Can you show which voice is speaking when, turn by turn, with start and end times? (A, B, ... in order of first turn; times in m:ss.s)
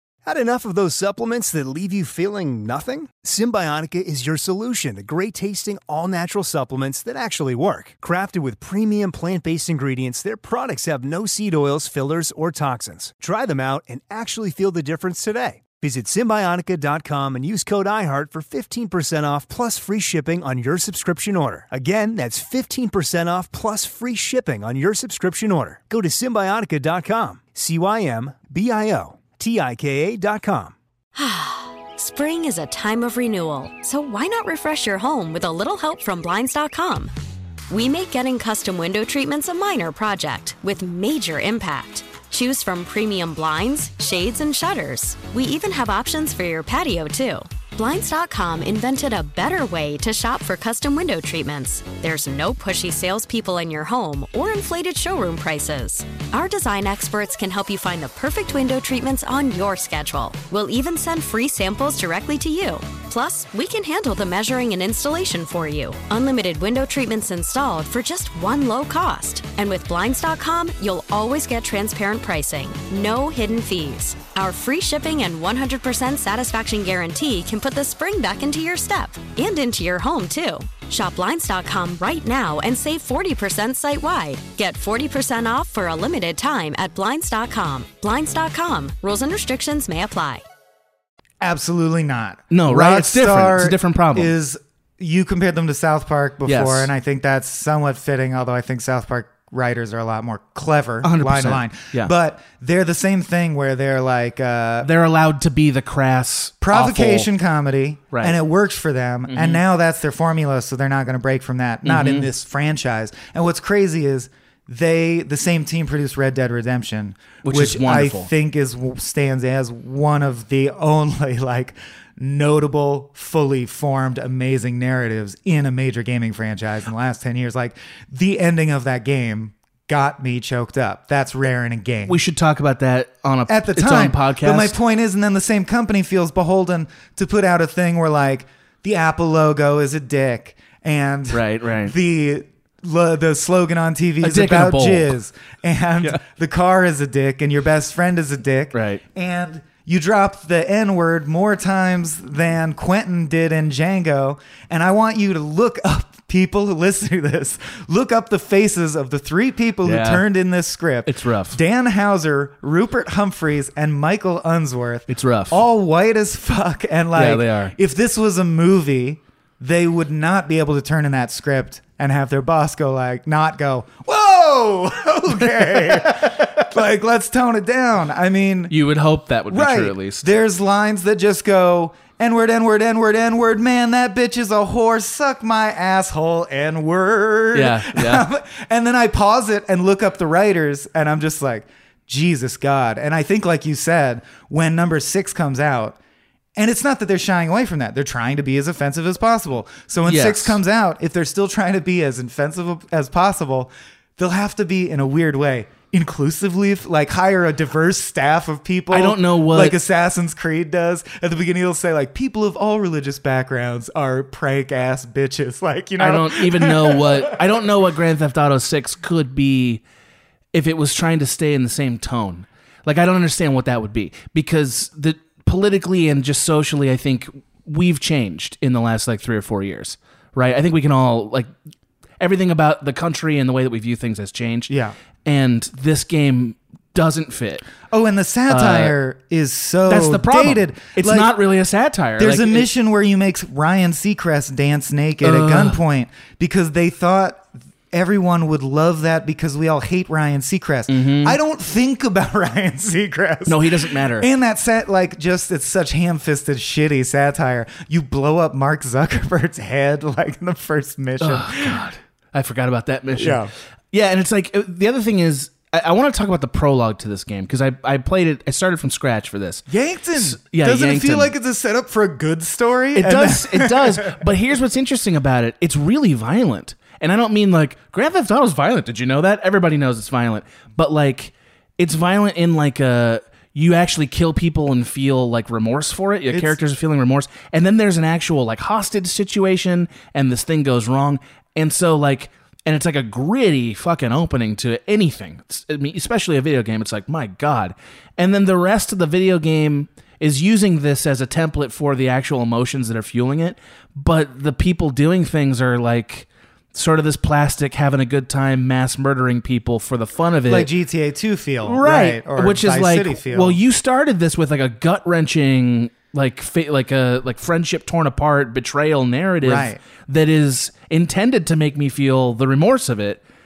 0:00.2-0:30.7 A
0:31.2-0:37.1 B
0:37.7-1:30.4 B
1:31.4-1:44.9 C
1:32.5-1:34.3 D
1:36.4-1:36.9 D
1:41.0-1:42.1 D
1:44.8-1:47.3 D
1:46.6-2:12.2 C
1:49.3-1:49.6 D
1:51.8-1:52.3 D
1:57.4-1:58.3 D
2:12.1-2:14.8 D
2:13.5-2:58.8 C
2:21.3-2:21.9 D
2:24.2-2:25.1 D
2:28.7-2:29.0 D
2:39.8-2:40.2 D
2:41.0-2:41.6 D
2:45.1-2:45.6 D
2:47.1-2:47.7 D
2:55.6-2:56.5 D
2:58.7-3:00.3 D
2:59.5-3:16.0 C
3:07.5-3:08.2 D
3:16.6-3:37.4 C
3:20.0-3:20.6 D
3:28.9-3:29.8 D
3:36.0-3:39.8 D
3:40.5-3:51.5 D
3:52.2-3:54.7 D
3:54.7-3:54.9 C
3:55.2-3:57.7 D
3:57.9-4:01.4 C
3:58.5-3:58.9 D
3:59.9-4:02.7 D
4:02.2-4:21.8 C
4:05.2-4:05.8 D
4:10.9-4:11.4 D
4:13.4-4:14.3 D
4:21.2-4:29.6 D
4:23.1-4:23.5 C
4:29.7-4:34.2 C
4:30.2-4:31.3 D
4:32.9-5:10.7 D
4:46.3-4:46.6 C
5:10.4-5:13.6 C
5:11.6-5:23.2 D
5:19.4-5:19.8 C